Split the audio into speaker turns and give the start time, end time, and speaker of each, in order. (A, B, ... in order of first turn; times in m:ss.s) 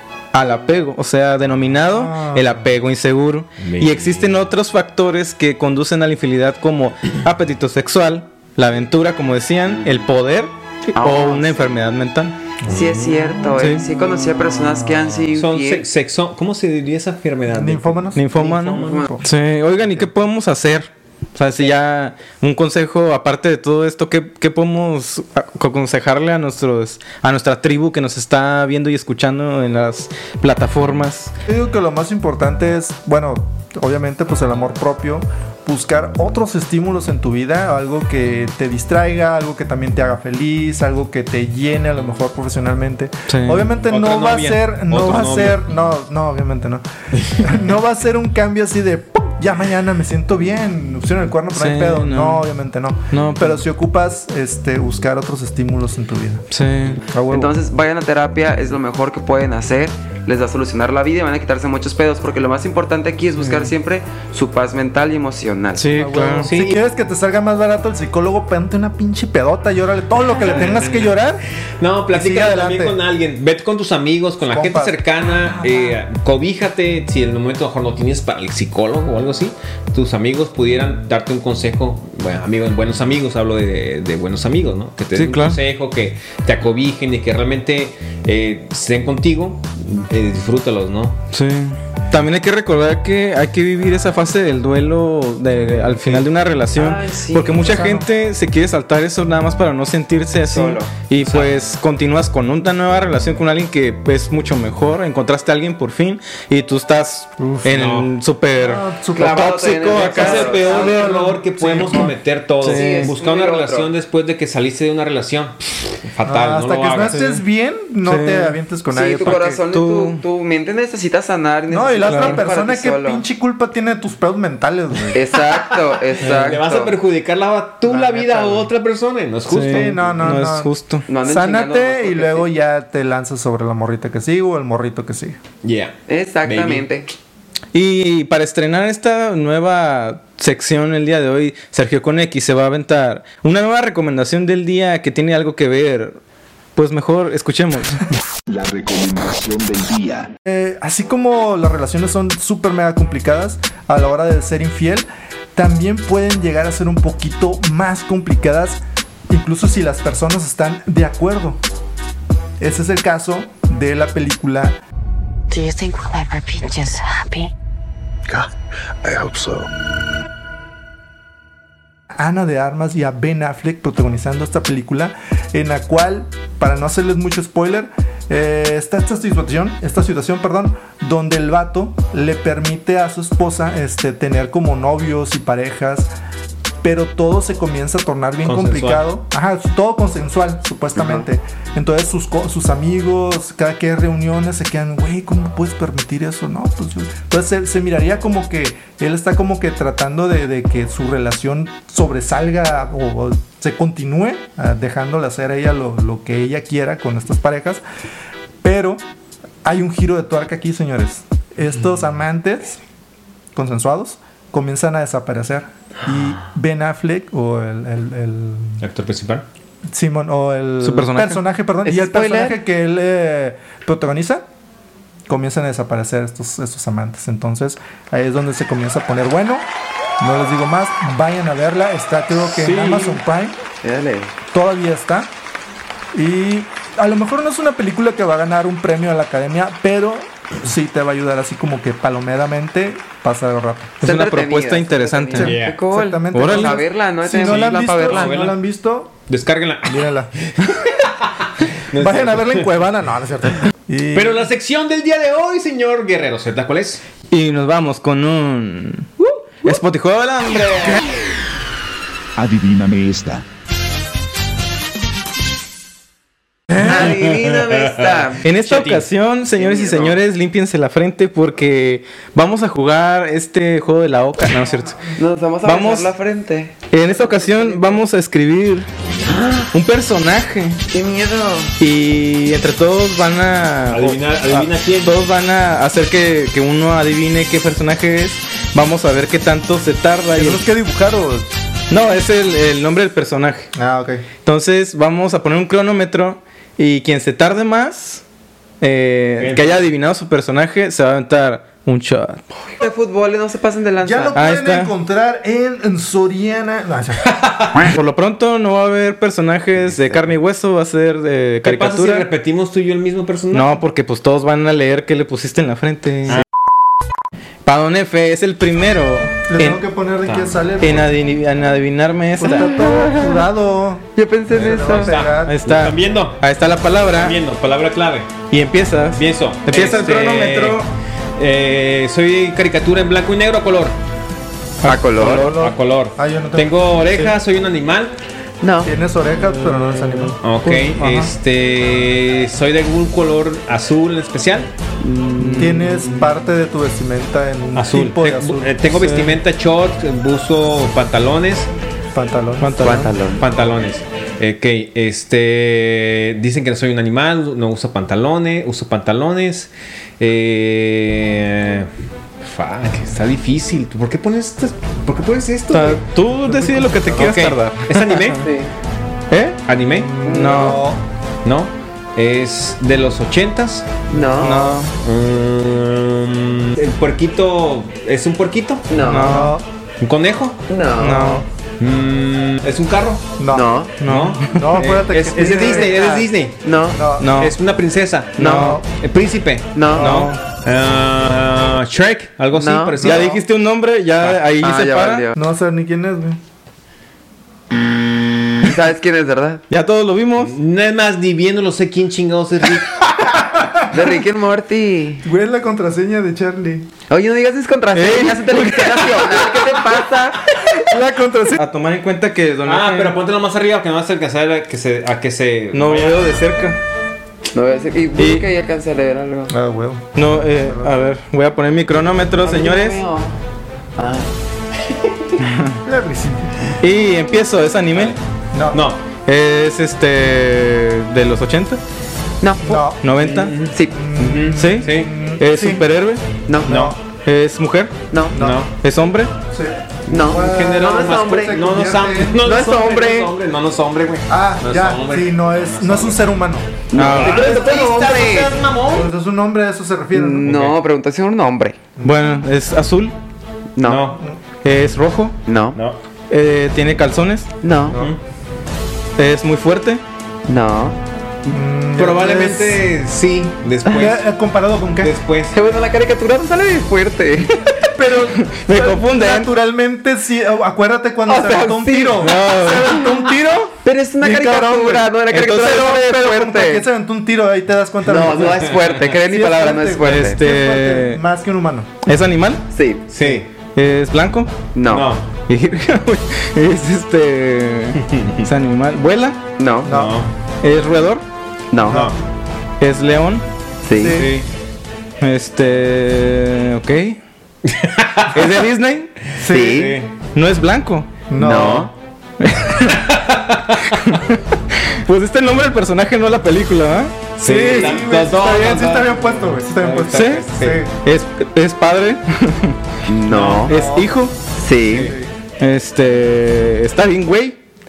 0:00.3-0:12.4 A
0:01.9-0:02.7 B
0:03.6-0:04.4 C
0:11.0-0:11.8 D
0:12.7-0:13.5 C
0:12.7-0:15.8 D
0:13.6-0:13.8 A
0:14.4-0:15.2 B
0:15.3-0:19.1 C
0:17.5-0:19.3 B
0:18.2-0:31.3 A
0:18.4-0:19.1 D
0:31.5-0:46.8 B
0:43.3-0:43.7 A
0:43.9-0:45.6 C
0:47.4-0:56.5 B
0:51.5-0:52.4 A
0:53.1-0:53.6 A
0:56.5-0:57.0 A
0:57.1-0:57.5 B
0:57.3-1:05.9 D
1:03.4-1:03.7 A
1:05.8-1:06.5 A
1:05.9-1:11.4 B
1:06.5-1:06.8 C
1:10.6-1:11.1 C
1:11.8-1:31.2 C
1:12.1-1:13.0 B
1:14.4-1:15.0 B
1:25.2-1:25.6 A
1:31.3-1:50.7 A
1:36.7-1:38.0 D
1:40.4-1:41.5 D
1:47.4-1:47.8 B
1:47.7-1:48.1 C
1:48.6-1:50.0 B
1:49.1-1:51.3 D
1:49.9-1:57.2 C
1:50.6-1:52.2 B
1:52.6-1:53.1 A
1:52.7-1:53.9 D
1:56.2-1:59.6 B
1:57.1-1:57.4 A
1:58.0-1:58.6 A
1:58.9-2:03.2 D
1:59.3-2:00.2 A
2:01.7-2:05.2 B
2:02.1-2:02.4 A
2:05.1-2:07.0 D
2:05.6-2:10.1 C
2:07.8-2:08.7 B
2:09.5-2:11.1 A
2:09.6-2:10.7 B
2:11.1-2:12.5 D
2:11.2-2:15.4 B
2:15.6-2:16.9 C
2:16.1-2:17.1 D
2:17.7-2:26.2 A
2:26.8-2:28.0 A
2:28.5-2:30.3 E
2:30.5-2:41.6 B
2:42.6-2:44.8 B
2:45.5-2:47.5 F
2:49.0-2:49.7 E
2:52.1-3:06.1 B
3:06.8-3:27.8 B
3:08.4-3:09.0 C
3:11.0-3:11.3 D
3:28.6-3:29.0 B
3:29.6-3:32.8 B
3:33.6-3:38.8 B
3:38.8-3:39.4 C
3:39.9-3:44.4 B
3:40.8-3:41.4 A
3:41.8-3:42.6 D
3:45.3-3:49.7 B
3:50.2-3:53.6 B
3:52.6-3:53.2 C
3:53.8-3:54.3 D
3:54.5-3:55.3 B
3:56.1-4:04.0 B
4:04.0-4:05.6 A
4:04.0-4:08.3 D
4:05.4-4:09.2 B
4:05.4-4:05.8 C
4:06.3-4:06.8 A
4:07.4-4:08.6 C
4:09.3-4:12.7 C
4:09.9-4:10.3 B
4:11.9-4:14.5 B
4:14.1-4:17.0 C
4:17.3-4:21.0 A
4:22.4-4:23.4 E
4:26.7-4:28.9 D
4:26.8-4:27.2 C
4:27.7-4:28.0 C
4:28.4-4:35.0 A
4:28.7-4:29.0 C
4:29.6-4:30.2 D
4:34.6-4:35.1 B
4:35.2-4:38.0 D
4:35.6-4:36.1 A
4:36.9-4:38.9 A
4:39.2-4:39.7 D
4:39.7-4:40.8 A
4:40.9-4:41.8 D
4:41.8-4:50.6 A
4:43.9-4:45.2 C
4:50.3-4:51.5 B
4:51.9-4:53.7 A
4:53.8-4:54.2 B
4:54.4-4:58.2 A
4:58.8-5:02.5 A
4:59.4-4:59.9 C
5:02.8-5:04.4 D
5:04.0-5:07.4 B
5:04.4-5:04.9 A
5:07.9-5:12.3 A
5:11.6-5:13.8 C
5:13.5-5:16.4 A
5:17.6-5:19.8 A
5:19.5-5:21.1 B
5:20.2-5:20.5 C
5:20.8-5:22.7 A
5:22.4-5:25.6 B
5:22.8-5:23.3 D
5:24.2-5:25.1 D
5:24.5-5:26.4 C
5:25.4-5:27.4 A
5:27.1-5:28.3 C
5:28.5-5:30.9 A
5:29.2-5:30.8 C
5:31.4-5:34.0 C
5:34.8-5:35.6 A
5:34.8-5:35.5 D
5:35.2-5:37.1 B
5:35.4-5:38.2 C
5:38.6-5:38.9 D
5:38.8-5:40.4 B
5:39.5-5:41.3 A
5:40.4-5:44.7 C
5:45.0-5:45.9 D
5:45.4-5:46.1 A
5:45.6-5:48.8 B
5:47.8-5:51.7 C
5:48.9-5:49.4 A
5:52.1-5:53.1 B
5:52.6-5:53.1 A
5:52.8-5:53.4 D
5:53.4-6:01.9 C
6:02.4-6:06.0 C
6:05.7-6:08.4 A
6:06.4-6:07.4 B
6:07.2-6:08.5 C
6:08.4-6:08.7 D
6:09.3-6:09.6 A
6:09.7-6:10.1 C
6:10.0-6:11.0 B
6:10.2-6:10.8 A
6:10.2-6:10.7 D
6:11.4-6:14.0 C
6:14.1-6:14.8 D
6:14.4-6:14.9 A
6:15.0-6:18.8 C
6:18.9-6:19.5 D
6:19.0-6:19.6 A
6:19.1-6:19.7 B
6:20.0-6:20.6 C
6:20.7-6:21.4 D
6:21.0-6:21.4 A
6:21.8-6:23.3 C
6:23.4-6:23.9 B
6:23.5-6:23.9 D
6:24.0-6:24.6 A
6:24.0-6:26.6 C
6:24.4-6:26.3 B
6:25.6-6:26.0 D
6:26.6-6:27.0 D
6:26.9-6:27.4 B
6:27.2-6:27.5 A
6:27.4-6:33.4 C
6:28.4-6:28.8 A
6:28.4-6:28.8 B
6:29.8-6:30.3 D
6:30.0-6:30.4 A
6:32.5-6:33.3 D
6:33.0-6:33.3 B
6:33.0-6:35.2 A
6:34.6-6:35.4 D
6:35.4-6:36.4 B
6:38.6-6:39.6 D
6:39.7-6:40.5 A
6:40.4-6:43.0 C
6:43.9-6:45.2 D
6:45.2-6:46.9 B
6:47.1-6:50.7 D
6:47.9-6:49.1 A
6:50.9-6:51.6 B
6:51.6-6:53.2 A
6:52.6-6:56.5 C
6:55.7-6:56.8 A
6:57.5-6:59.5 D
6:58.2-6:58.5 A
6:59.5-7:01.1 B
7:00.2-7:03.0 A
7:02.4-7:03.4 D
7:04.0-7:04.3 D
7:05.4-7:05.8 A
7:05.8-7:06.5 B
7:06.8-7:08.2 A
7:08.5-7:08.9 B
7:08.7-7:09.0 C
7:09.3-7:11.8 A
7:12.4-7:12.8 D
7:12.6-7:13.0 B
7:13.0-7:13.6 A
7:13.2-7:13.7 C
7:13.7-7:14.0 D
7:13.9-7:15.8 B
7:14.2-7:16.2 A
7:14.8-7:15.1 C
7:16.5-7:16.9 D
7:16.6-7:16.9 C
7:16.6-7:17.0 B
7:17.2-7:18.0 A
7:18.1-7:18.4 D
7:18.3-7:18.6 B
7:18.4-7:18.7 C
7:18.8-7:19.3 A
7:19.5-7:22.4 B
7:20.1-7:21.1 D
7:20.2-7:26.2 C
7:22.4-7:23.3 D
7:24.3-7:28.3 B
7:26.9-7:28.6 D
7:27.0-7:27.4 A
7:27.1-7:29.1 C
7:28.9-7:30.5 B
7:30.1-7:31.8 D
7:30.4-7:30.8 C
7:32.0-7:32.3 B
7:32.0-7:33.2 A
7:33.8-7:34.2 D
7:33.8-7:34.2 C
7:34.6-7:35.4 A
7:35.5-7:35.8 D
7:36.3-7:37.5 A
7:37.6-7:38.0 D
7:37.9-7:38.1 B
7:39.2-7:40.0 A
7:40.5-7:41.0 D
7:41.4-7:44.2 C
7:41.5-7:42.8 B
7:43.9-7:45.2 B
7:45.0-7:45.6 C
7:45.5-7:47.7 D
7:47.8-8:01.9 B
7:48.5-7:49.5 A
7:51.3-7:53.2 D
7:52.2-7:53.0 A
7:53.8-7:56.9 D
7:55.3-7:56.0 A
7:58.1-8:00.4 D
8:00.0-8:01.2 A
8:02.1-8:02.6 A
8:02.7-8:03.0 D
8:03.1-8:03.5 C
8:03.8-8:04.5 A
8:04.8-8:05.1 D
8:04.9-8:05.2 C
8:05.5-8:09.4 A
8:08.0-8:08.5 C
8:09.6-8:09.9 D
8:09.8-8:10.2 B
8:09.9-8:10.3 C
8:10.6-8:11.2 A
8:11.7-8:12.1 D
8:11.9-8:12.2 B
8:11.9-8:12.2 C
8:12.8-8:13.4 A
8:13.8-8:14.2 D
8:13.9-8:14.4 B
8:14.1-8:14.5 C
8:15.2-8:17.2 A
8:17.7-8:18.5 C
8:18.3-8:19.1 A
8:19.4-8:19.9 B
8:19.5-8:20.0 D
8:19.5-8:20.1 C
8:20.4-8:21.1 A
8:21.3-8:21.9 B
8:21.4-8:21.9 D
8:22.4-8:23.0 A
8:23.1-8:23.6 C
8:23.9-8:27.2 A
8:27.4-8:30.9 C
8:27.4-8:30.9 B
8:30.1-8:30.4 A
8:31.0-8:32.8 A
8:33.1-8:33.8 D
8:33.3-8:33.7 C
8:33.5-8:34.1 B
8:33.7-8:34.3 A
8:34.6-8:35.2 D
8:34.9-8:35.1 C
8:34.9-8:35.3 B
8:35.6-8:37.6 A